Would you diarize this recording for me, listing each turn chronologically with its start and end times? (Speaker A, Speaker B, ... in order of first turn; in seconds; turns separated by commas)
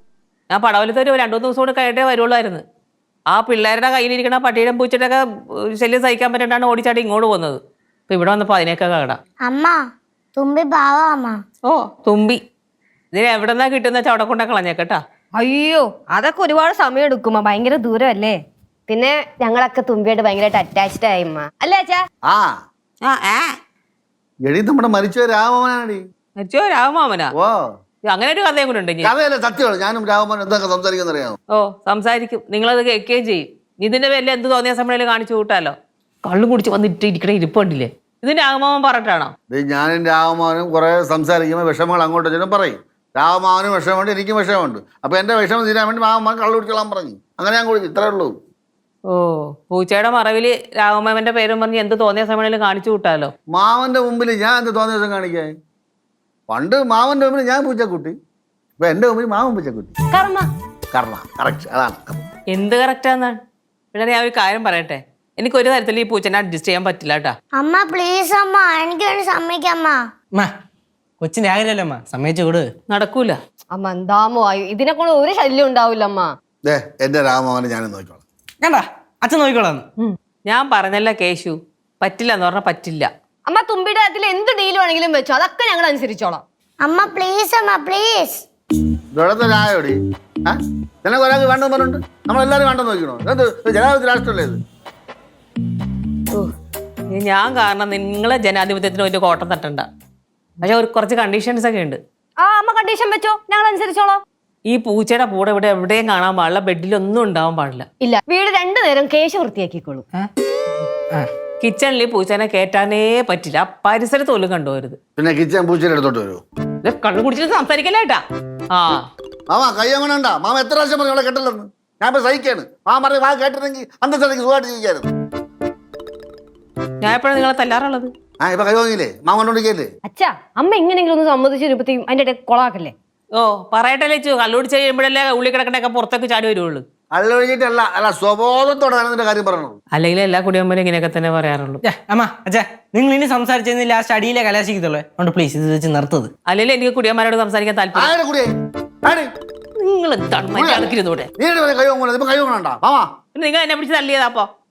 Speaker A: 0.5-2.6, Speaker A: 3.3-5.2, Speaker A: 5.7-9.2, Speaker B: 9.4-9.8, Speaker B: 10.3-11.4, Speaker A: 11.6-12.4, Speaker A: 13.1-15.0, Speaker C: 15.3-18.4, Speaker C: 18.9-22.0, Speaker D: 22.2-22.5, Speaker A: 23.0-23.6, Speaker D: 24.4-26.0, Speaker A: 26.4-27.3, Speaker A: 28.1-29.1, Speaker D: 29.0-31.4, Speaker A: 31.5-39.3, Speaker D: 39.5-48.3, Speaker A: 49.1-53.3, Speaker D: 53.5-55.5, Speaker D: 56.5-58.1, Speaker D: 58.8-59.9, Speaker C: 60.1-60.5, Speaker D: 60.9-62.1, Speaker A: 62.5-63.4, Speaker A: 63.9-67.3, Speaker B: 67.5-70.0, Speaker E: 71.2-72.7, Speaker A: 72.9-73.4, Speaker C: 73.7-76.3, Speaker D: 76.6-78.2, Speaker E: 78.6-79.8, Speaker A: 80.5-83.1, Speaker C: 83.5-86.4, Speaker B: 86.8-88.4, Speaker D: 89.1-94.6, Speaker A: 97.1-99.9, Speaker A: 100.6-102.0, Speaker C: 102.4-104.2, Speaker A: 104.7-107.9, Speaker C: 108.0-110.0, Speaker A: 111.6-115.0, Speaker D: 115.2-116.4, Speaker A: 116.8-118.2, Speaker A: 118.7-119.0, Speaker D: 119.5-125.1, Speaker A: 127.0-128.1, Speaker D: 128.4-129.9, Speaker C: 130.0-132.9, Speaker A: 133.3-136.8, Speaker D: 137.1-139.8, Speaker A: 139.9-141.8, Speaker E: 141.8-146.3, Speaker A: 146.5-148.1, Speaker D: 147.9-148.5, Speaker D: 149.0-149.3, Speaker A: 149.8-151.3, Speaker D: 150.6-153.1, Speaker A: 153.3-154.5